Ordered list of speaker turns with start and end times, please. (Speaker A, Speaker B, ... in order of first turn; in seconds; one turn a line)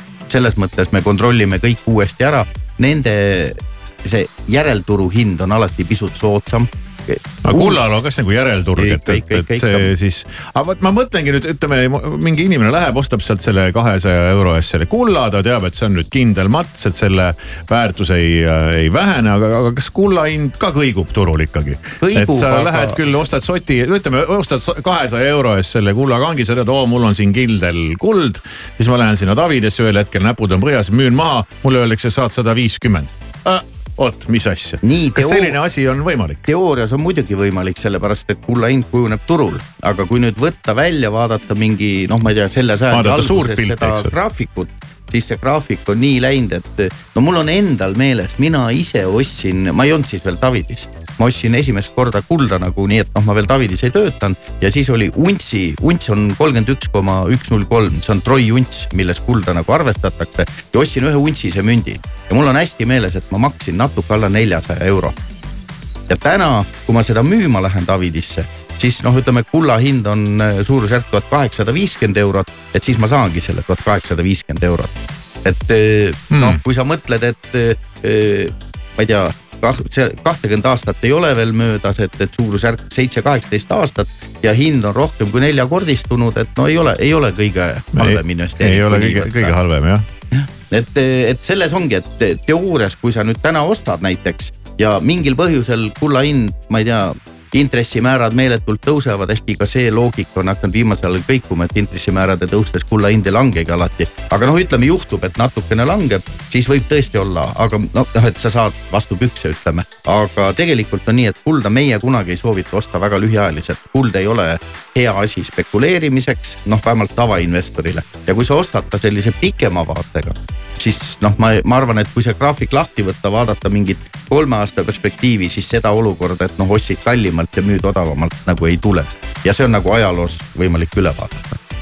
Speaker A: 0.3-7.8
Speaker B: 7.5-36.4
Speaker A: 8.8-9.9
Speaker A: 22.0-23.0
Speaker A: 34.8-35.6
Speaker A: 36.5-65.1
Speaker B: 42.9-44.1
Speaker A: 66.1-89.5
Speaker B: 76.3-76.6
Speaker B: 88.0-90.0
Speaker A: 90.3-131.6